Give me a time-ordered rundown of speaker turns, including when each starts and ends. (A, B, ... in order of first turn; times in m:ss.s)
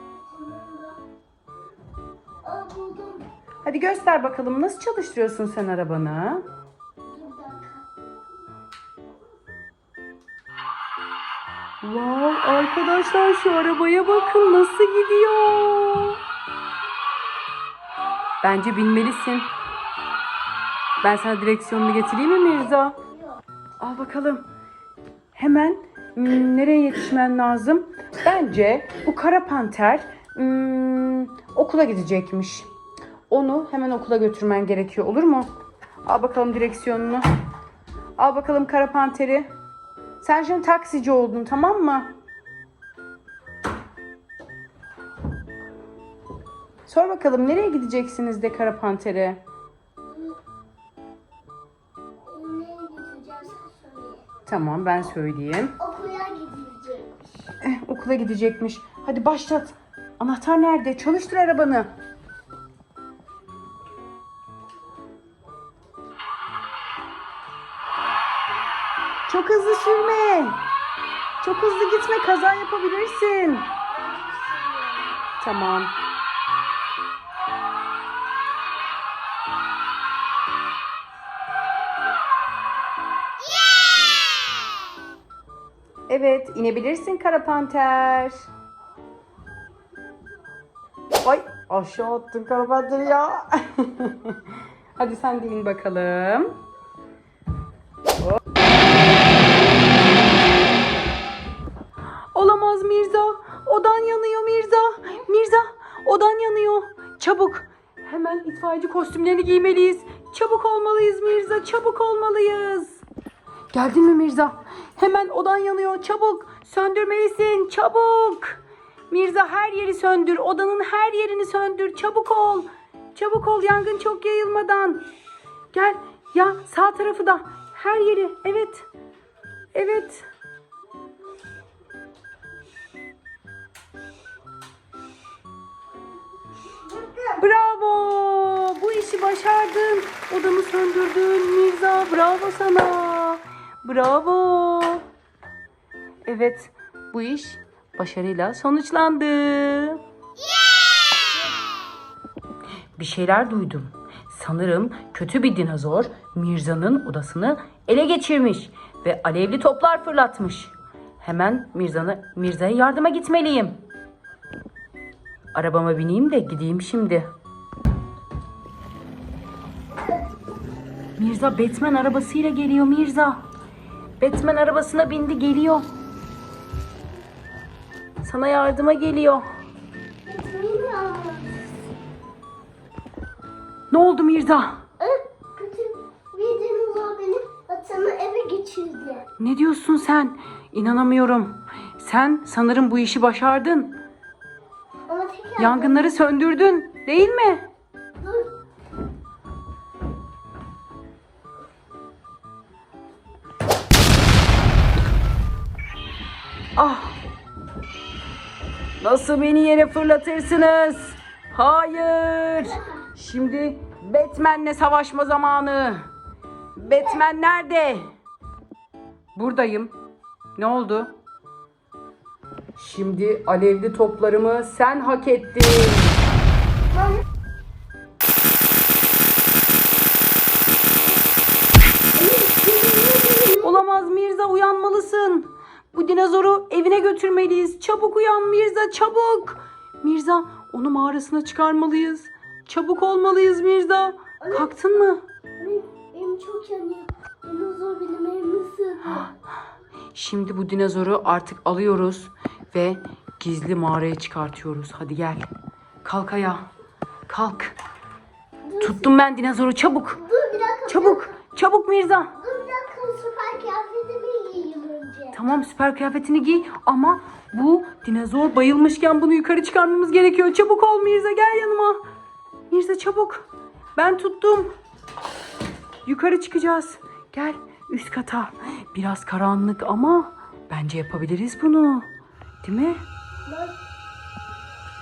0:00.2-0:01.0 A
0:02.4-0:03.3 A
0:03.6-0:06.4 B
0:07.0-0:07.9 A
0:11.8-0:16.2 B
0:18.4-0:19.5 B
0:21.0-0:23.0 B
0:23.8-0:24.4 B
0:25.3-0:32.7 B
0:33.3-0:35.5 B
0:36.0-0:37.2 B
0:38.2-0:39.5 B
0:40.2-0:42.1 B
0:46.9-0:49.4 B
0:50.1-0:50.4 A
0:52.3-0:54.2 A
0:54.5-0:55.8 B
0:55.8-0:57.6 A
0:57.6-1:01.9 B
1:09.3-1:10.6 B
1:11.4-1:13.7 B
1:13.9-1:15.2 A
1:15.4-1:16.0 B
1:26.1-1:28.5 B
1:31.2-1:36.6 B
1:42.3-1:53.0 B
1:53.7-2:05.0 B
2:05.7-2:08.9 B
2:09.7-2:10.2 B
2:16.9-2:17.3 A
2:17.4-2:25.0 B
2:26.2-2:30.0 B
2:33.0-2:43.8 B
2:45.5-2:47.3 B
2:51.2-2:53.4 B
2:54.2-2:55.9 B
2:58.2-2:59.4 B
3:00.3-3:01.8 A
3:03.9-3:04.8 B
3:05.0-3:09.3 A
3:09.4-3:14.0 B
3:15.1-3:16.1 A
3:15.6-3:17.7 B
3:18.2-3:18.6 A
3:26.8-3:27.2 B
3:29.0-3:36.0 B
3:32.7-3:33.0 A
3:36.8-3:38.1 B
3:39.4-3:39.9 B
3:40.6-3:41.1 B
3:42.8-3:46.2 B
3:52.2-3:53.8 A
3:53.6-4:05.2 B
4:04.4-4:04.9 A
4:05.6-4:09.3 A
4:10.1-4:15.5 B
4:16.0-4:16.6 B
4:17.3-4:17.8 B
4:18.7-4:19.1 A
4:18.8-4:20.2 B
4:20.2-4:21.3 A
4:20.9-4:22.4 B
4:22.4-4:25.4 A
4:25.3-4:32.0 B
4:32.7-4:34.7 B
4:36.1-4:42.1 B
4:42.6-4:43.0 B
4:43.5-4:43.8 A